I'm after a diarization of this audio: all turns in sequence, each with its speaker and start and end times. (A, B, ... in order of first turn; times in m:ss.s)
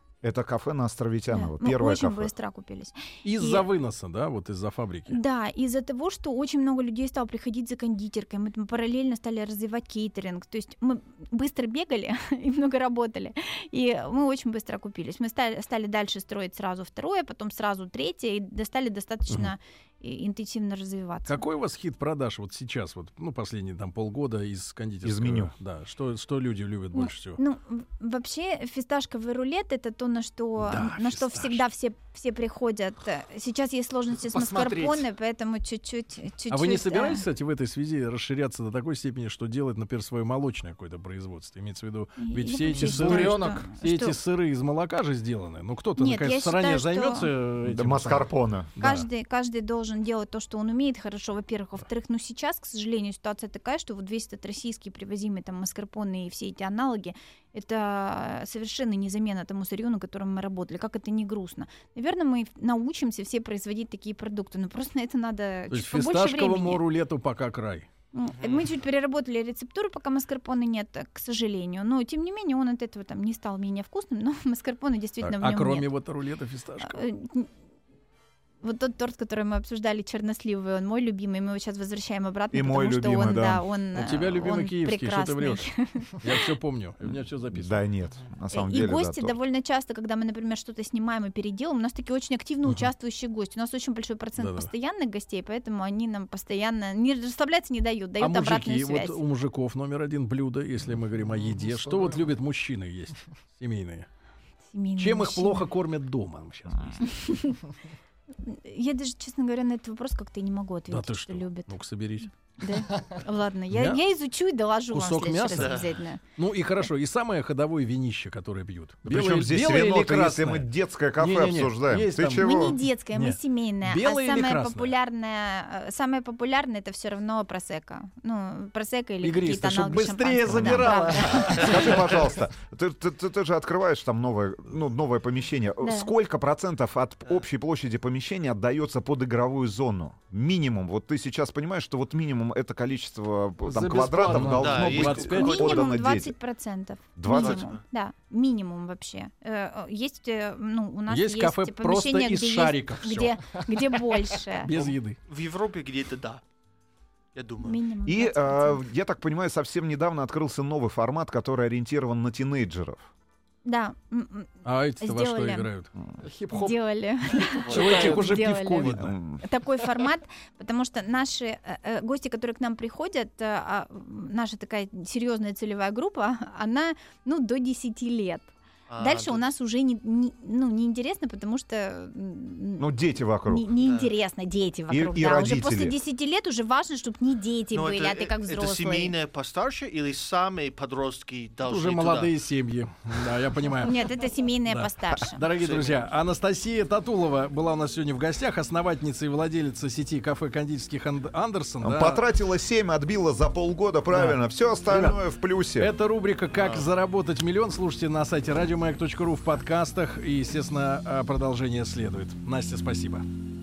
0:00.2-0:02.3 A
0:01.3-0:03.7 B
0:03.2-0:05.2 C
0:05.1-0:21.4 B
0:21.3-0:27.4 C
0:25.0-0:25.5 A
0:27.0-0:37.2 B
0:30.6-0:31.6 C
0:34.2-0:35.0 D
0:36.5-0:49.1 C
0:42.2-0:44.2 B
0:42.8-0:43.6 D
0:46.0-0:47.3 B
0:47.6-0:49.0 A
0:48.8-1:06.8 B
1:05.7-1:07.9 C
1:08.1-1:15.9 B
1:08.3-1:08.7 E
1:15.2-1:17.0 C
1:16.8-1:17.5 B
1:18.6-1:26.4 B
1:22.5-1:23.7 A
1:24.0-1:27.8 C
1:27.5-1:29.4 A
1:28.5-1:39.2 B
1:34.4-1:34.7 C
1:38.2-1:44.1 C
1:44.7-1:45.7 B
1:45.0-1:47.1 C
1:47.0-1:47.6 B
1:48.4-1:51.7 B
1:50.9-1:52.3 C
1:52.6-1:56.2 B
1:53.7-1:54.0 C
1:54.9-1:55.8 C
1:55.6-1:55.9 E
1:56.4-2:04.9 C
1:59.0-2:02.8 A
2:02.4-2:12.1 B
2:09.2-2:11.9 C
2:10.5-2:26.4 A
2:15.8-2:16.1 B
2:23.6-2:24.9 D
2:24.3-2:25.9 C
2:24.5-2:25.4 E
2:25.3-2:34.7 B
2:27.2-2:27.7 A
2:27.3-2:27.8 E
2:31.1-2:33.6 C
2:34.6-2:35.2 C
2:35.3-2:36.4 E
2:37.3-2:37.8 E
2:37.6-2:38.9 B
2:38.1-2:43.1 A
2:43.6-2:45.7 B
2:44.6-2:45.9 C
2:46.2-2:46.8 D
2:46.5-3:09.2 B
2:47.6-2:48.1 E
2:47.7-2:48.2 D
2:47.7-2:49.1 C
2:48.9-2:49.4 A
2:58.9-2:59.5 E
3:02.8-3:03.7 A
3:03.8-3:04.1 E
3:04.9-3:06.0 A
3:07.7-3:12.3 E
3:11.6-3:14.0 C
3:13.8-3:15.4 B
3:14.7-3:22.2 C
3:15.6-3:16.0 E
3:21.8-3:25.9 A
3:24.1-3:25.2 C
3:25.8-3:33.2 C
3:26.6-3:26.9 E